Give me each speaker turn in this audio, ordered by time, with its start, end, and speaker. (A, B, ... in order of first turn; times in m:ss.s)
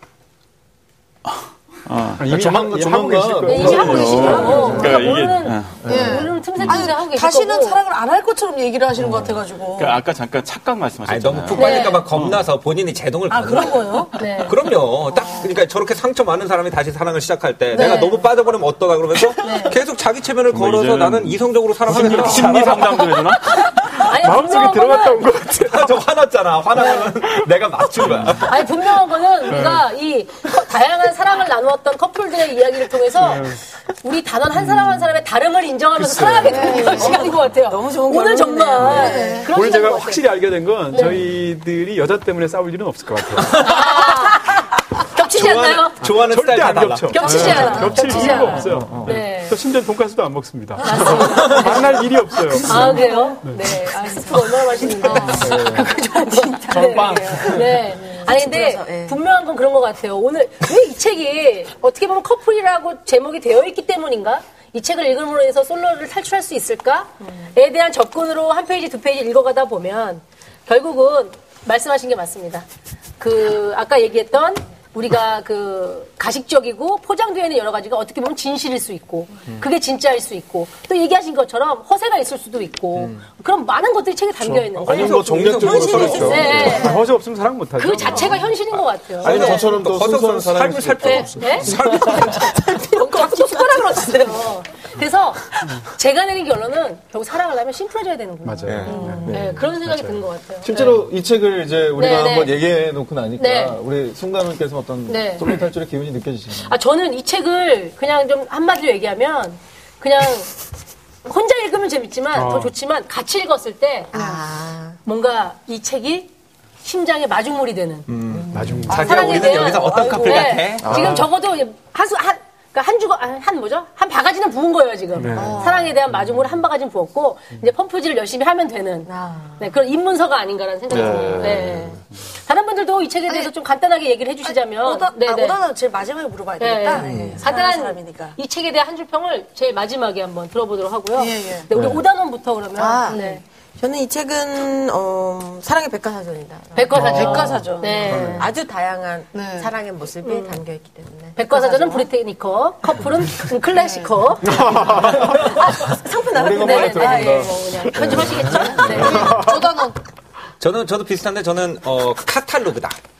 0:01.3-0:02.4 A
0:02.2-0:04.3 B
0:02.2-0:05.1 C
0:03.5-0:07.8 D
0:03.6-0:07.0 A
0:04.1-0:05.2 E
0:05.8-0:10.0 E
0:09.7-0:12.5 A
0:11.0-0:23.2 F
0:11.6-0:12.1 D
0:13.3-0:14.3 E
0:14.2-0:14.6 D
0:15.2-0:15.4 E
0:17.7-0:18.2 E
0:17.7-0:18.3 D
0:19.3-0:19.8 E
0:19.4-0:19.8 D
0:20.5-0:23.5 A
0:21.9-0:23.1 B
0:23.6-0:25.2 D
0:23.9-0:26.1 B
0:25.6-0:28.6 F
0:28.0-0:28.3 B
0:28.5-0:40.2 D
0:29.5-0:29.9 B
0:33.2-0:33.6 B
0:34.6-0:35.0 B
0:36.0-0:36.7 B
0:36.4-0:37.4 E
0:36.7-0:39.5 G
0:38.8-0:39.5 E
0:39.5-0:44.0 B
0:40.9-0:41.2 D
0:43.5-0:44.4 F
0:43.6-0:46.0 D
0:45.3-0:48.1 F
0:46.1-0:53.6 B
0:47.1-0:49.6 D
0:48.2-0:48.5 E
0:48.7-0:49.2 C
0:50.8-0:52.1 D
0:52.6-1:12.6 D
0:54.8-0:55.9 E
0:55.3-0:56.0 C
0:56.0-0:59.2 G
0:56.7-0:57.9 C
1:13.2-1:25.1 D
1:24.4-1:26.9 C
1:24.8-1:26.6 F
1:25.4-1:27.0 G
1:26.2-1:27.0 D
1:26.5-1:28.6 B
1:27.8-1:29.6 D
1:29.2-1:32.4 C
1:29.2-1:33.2 F
1:31.0-1:41.0 D
1:33.2-1:34.0 G
1:34.0-1:34.3 E
1:38.4-1:39.3 B
1:38.7-1:46.8 C
1:38.9-1:39.3 E
1:42.0-1:42.6 D
1:43.4-1:43.8 D
1:45.1-1:45.6 D
1:46.6-1:50.5 D
1:51.2-1:54.1 D
1:52.3-1:52.7 B
1:54.1-1:55.0 G
1:54.2-1:54.4 E
1:55.0-1:56.3 D
1:56.8-1:58.1 D
1:58.1-2:01.1 F
1:58.5-1:59.5 B
1:58.9-2:15.6 D
1:59.6-2:00.5 E
2:00.8-2:01.3 C
2:00.9-2:01.3 B
2:05.2-2:05.7 B
2:05.3-2:06.0 E
2:09.1-2:09.6 G
2:10.9-2:12.0 A
2:11.2-2:11.9 E
2:13.3-2:13.5 E
2:14.4-2:18.4 E
2:16.6-2:23.4 D
2:17.0-2:17.4 C
2:21.2-2:21.7 E
2:21.7-2:22.0 C
2:22.8-2:23.4 E
2:23.8-2:32.1 G
2:26.7-2:28.5 D
2:27.0-2:28.5 E
2:29.3-2:29.7 E
2:30.3-2:30.5 D
2:31.4-2:35.9 D
2:33.7-2:34.1 E
2:34.5-2:35.4 B
2:34.5-2:38.2 G
2:34.9-2:35.6 C
2:36.3-2:39.3 C
2:36.5-2:39.6 D
2:38.2-2:40.0 E
2:38.7-2:39.6 B
2:40.6-2:43.0 F